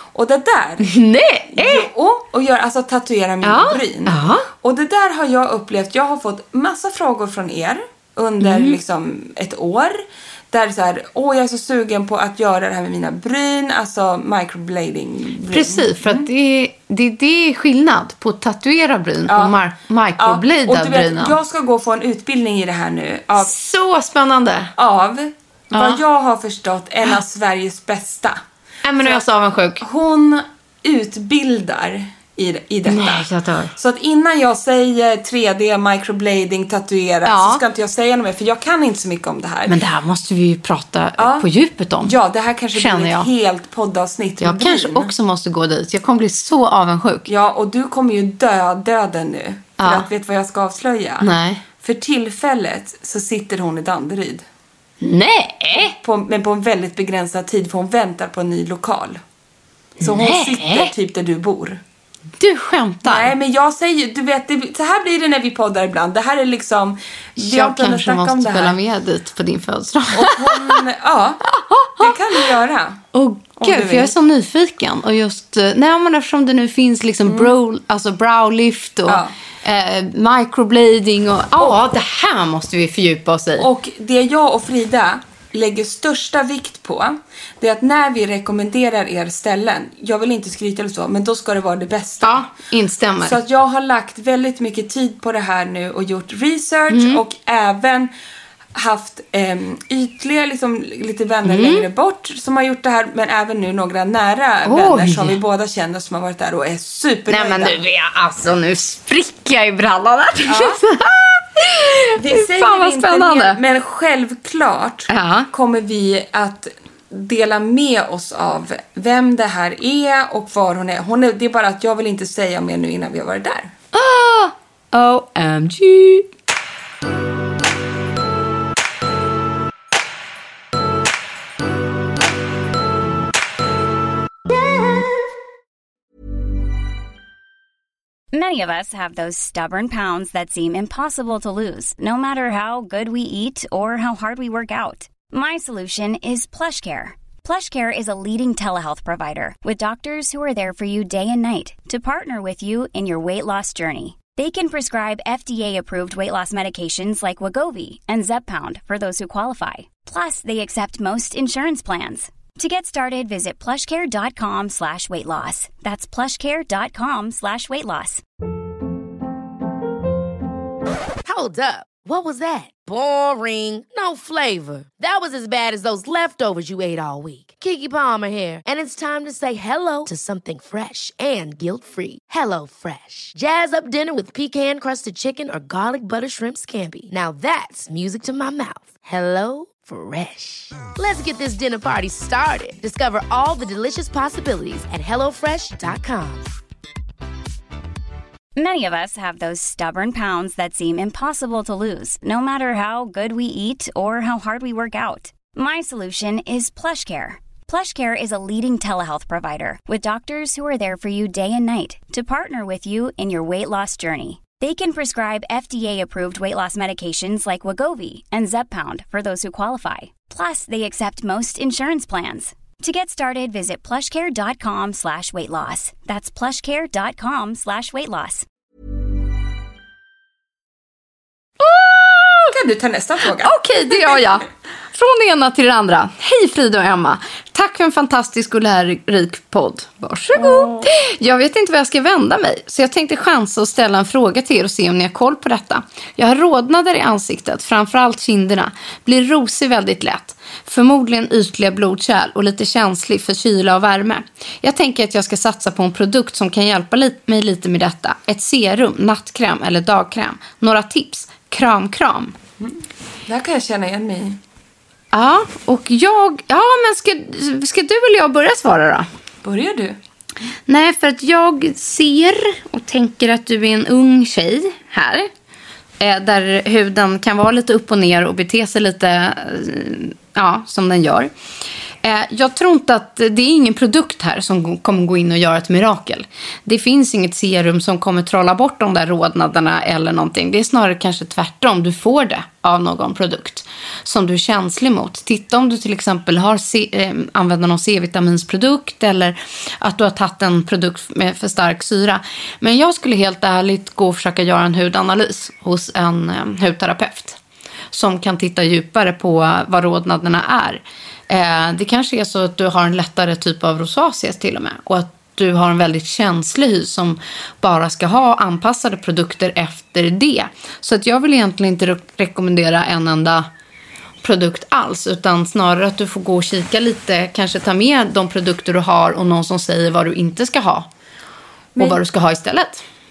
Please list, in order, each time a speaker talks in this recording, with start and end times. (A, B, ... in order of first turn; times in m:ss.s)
0:00.1-0:00.9 A
0:00.8-0:01.9 B
0:01.5-0:16.3 A
0:03.4-0:04.5 B
0:08.4-0:08.8 B
0:15.5-0:21.4 B
0:19.3-0:19.6 A
0:20.2-0:23.5 A
0:23.4-0:24.7 B
0:24.8-0:28.4 A
0:25.7-0:26.0 B
0:28.8-0:29.8 B
0:29.8-0:39.8 A
0:32.9-0:33.7 B
0:37.2-0:37.6 B
0:39.7-0:42.1 B
0:41.2-0:41.5 A
0:42.0-0:45.1 A
0:42.8-0:43.3 B
0:44.4-0:47.3 B
0:47.3-0:54.4 A
0:49.8-0:50.1 B
0:51.2-0:51.6 B
0:55.0-0:55.9 B
0:55.8-0:59.2 A
1:00.0-1:01.8 A
1:00.0-1:00.9 B
1:02.4-1:03.3 B
1:03.0-1:08.8 A
1:07.4-1:10.8 B
1:10.1-1:11.4 A
1:11.5-1:12.5 B
1:12.0-1:13.0 A
1:13.1-1:23.7 B
1:13.6-1:14.1 A
1:17.2-1:17.5 A
1:19.1-1:19.3 A
1:23.6-1:32.5 A
1:32.2-1:33.4 B
1:33.2-1:38.1 A
1:36.9-1:37.2 B
1:38.7-1:47.8 A
1:41.4-1:41.9 B
1:44.6-1:45.4 B
1:47.3-1:53.6 B
1:50.5-1:50.8 A
1:52.2-2:03.7 A
1:55.1-1:55.5 B
2:03.9-2:06.3 B
2:18.3-2:48.2 C
2:51.2-3:16.5 D
3:18.6-3:48.4 C
3:51.6-3:52.5 B
3:52.5-3:53.6 A
3:53.4-4:22.4 B
4:00.4-4:00.8 A
4:22.6-4:24.4 A
4:25.1-4:29.1 B
4:29.4-4:30.0 A
4:30.7-4:35.3 B
4:36.0-4:41.3 B
4:42.0-5:07.4 B
5:07.9-5:23.5 B
5:24.2-5:30.9 B
5:31.7-5:32.0 A
5:31.8-5:32.8 B